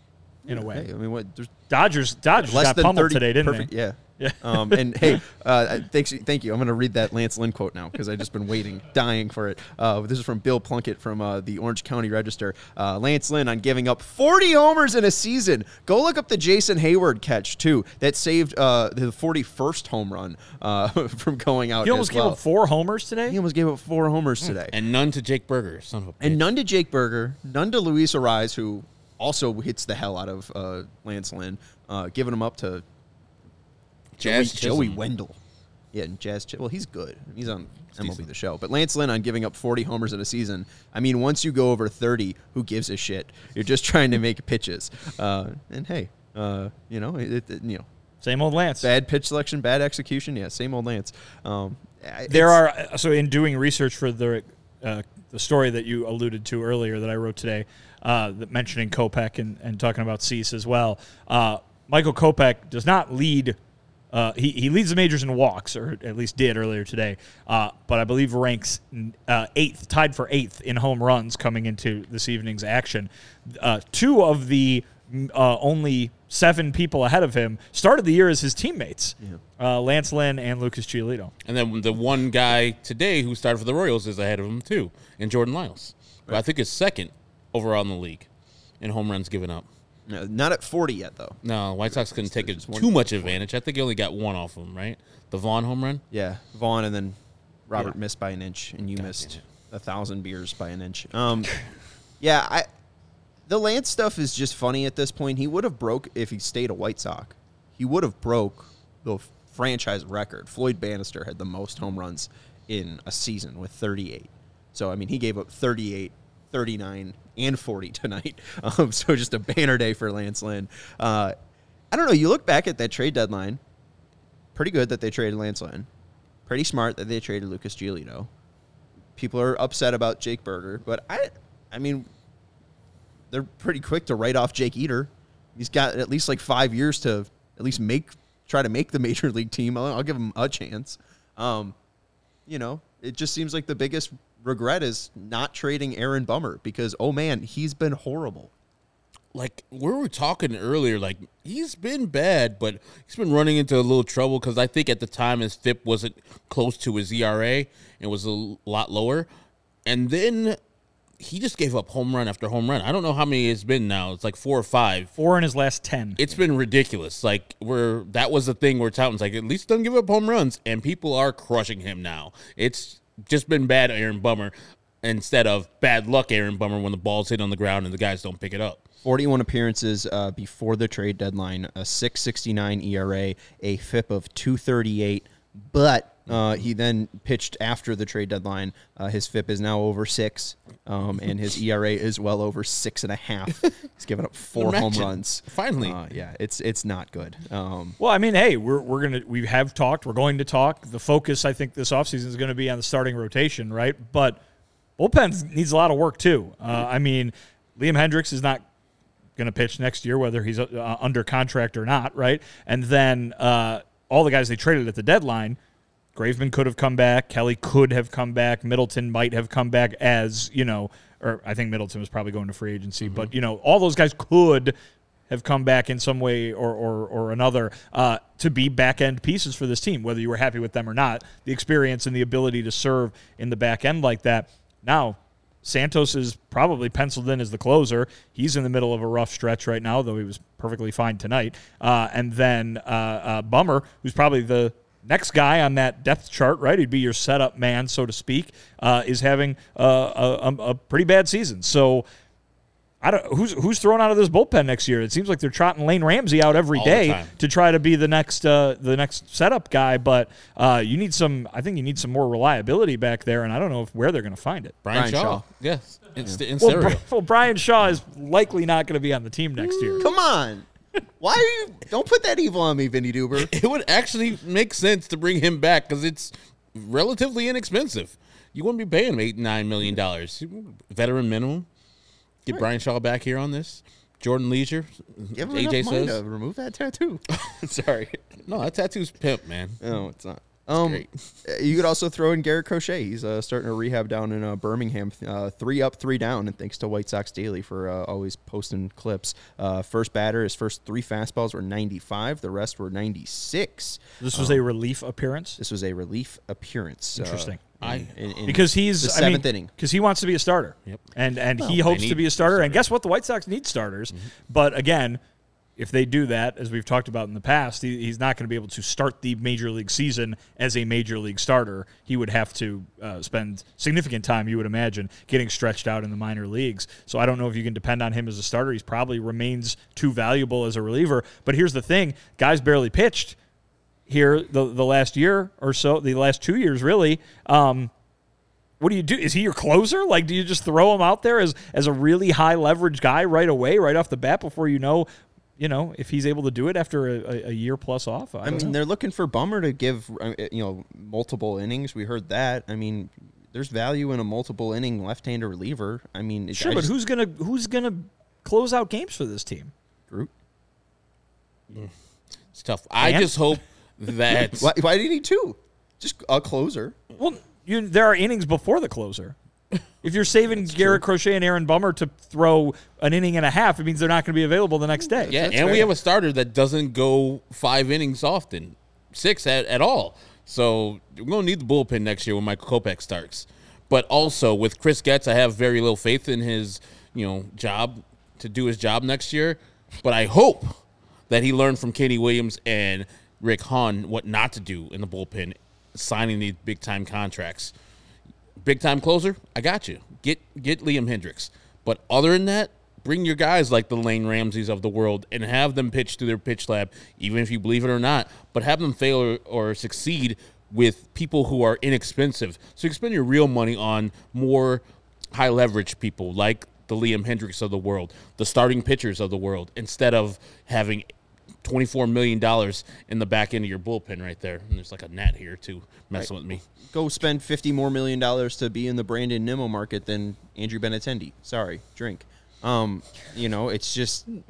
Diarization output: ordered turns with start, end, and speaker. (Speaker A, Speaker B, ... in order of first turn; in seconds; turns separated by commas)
Speaker A: 0.5-0.9, Speaker B: 0.5-1.5, Speaker A: 1.7-5.2, Speaker B: 2.4-22.4, Speaker A: 21.8-23.4, Speaker B: 23.3-24.7, Speaker C: 24.7-26.4, Speaker B: 26.2-32.8, Speaker C: 34.2-35.0, Speaker B: 34.2-35.4, Speaker B: 35.9-47.9, Speaker C: 37.9-38.2, Speaker A: 48.2-48.9, Speaker B: 48.8-52.6, Speaker A: 52.3-63.6, Speaker A: 64.1-81.3, Speaker C: 81.5-88.3, Speaker C: 88.8-89.7, Speaker B: 90.1-93.4, Speaker C: 91.4-96.0, Speaker B: 96.1-97.2, Speaker B: 97.7-101.6, Speaker C: 99.0-99.4, Speaker B: 102.2-102.7, Speaker B: 103.5-121.3, Speaker B: 121.9-123.6, Speaker B: 124.5-125.9, Speaker B: 126.5-128.3, Speaker B: 129.2-132.1, Speaker B: 133.3-141.8, Speaker B: 142.5-148.5, Speaker C: 149.3-159.3, Speaker C: 159.9-160.6, Speaker C: 161.2-165.1, Speaker A: 165.2-166.2, Speaker C: 166.2-178.8, Speaker B: 179.0-198.0, Speaker C: 194.6-196.0, Speaker A: 198.0-204.4, Speaker A: 205.0-208.7, Speaker A: 209.4-215.6, Speaker A: 216.2-224.7, Speaker C: 223.0-223.3, Speaker A: 225.3-252.1, Speaker A: 253.0-264.8, Speaker C: 256.7-257.3, Speaker C: 264.9-267.0, Speaker B: 264.9-265.4, Speaker A: 266.6-270.0, Speaker C: 269.6-270.1, Speaker B: 270.0-270.7, Speaker B: 271.2-273.5, Speaker C: 273.4-281.7, Speaker C: 282.4-286.2, Speaker B: 285.4-288.2, Speaker C: 288.4-289.8, Speaker B: 289.8-304.6, Speaker C: 290.8-291.1, Speaker A: 304.2-305.6, Speaker B: 305.6-309.7, Speaker A: 307.2-307.6, Speaker C: 307.8-308.1, Speaker A: 308.5-315.2, Speaker C: 311.6-312.8, Speaker A: 315.8-333.4, Speaker A: 334.1-337.9, Speaker A: 338.8-348.8, Speaker B: 348.4-356.9, Speaker A: 356.5-359.7, Speaker C: 362.5-364.7, Speaker A: 363.0-363.3, Speaker B: 364.5-367.0, Speaker A: 367.2-369.4, Speaker A: 370.0-375.3, Speaker B: 375.1-375.9, Speaker C: 375.3-390.8, Speaker C: 391.3-397.7, Speaker C: 398.6-421.1, Speaker C: 421.6-426.6, Speaker B: 426.9-434.3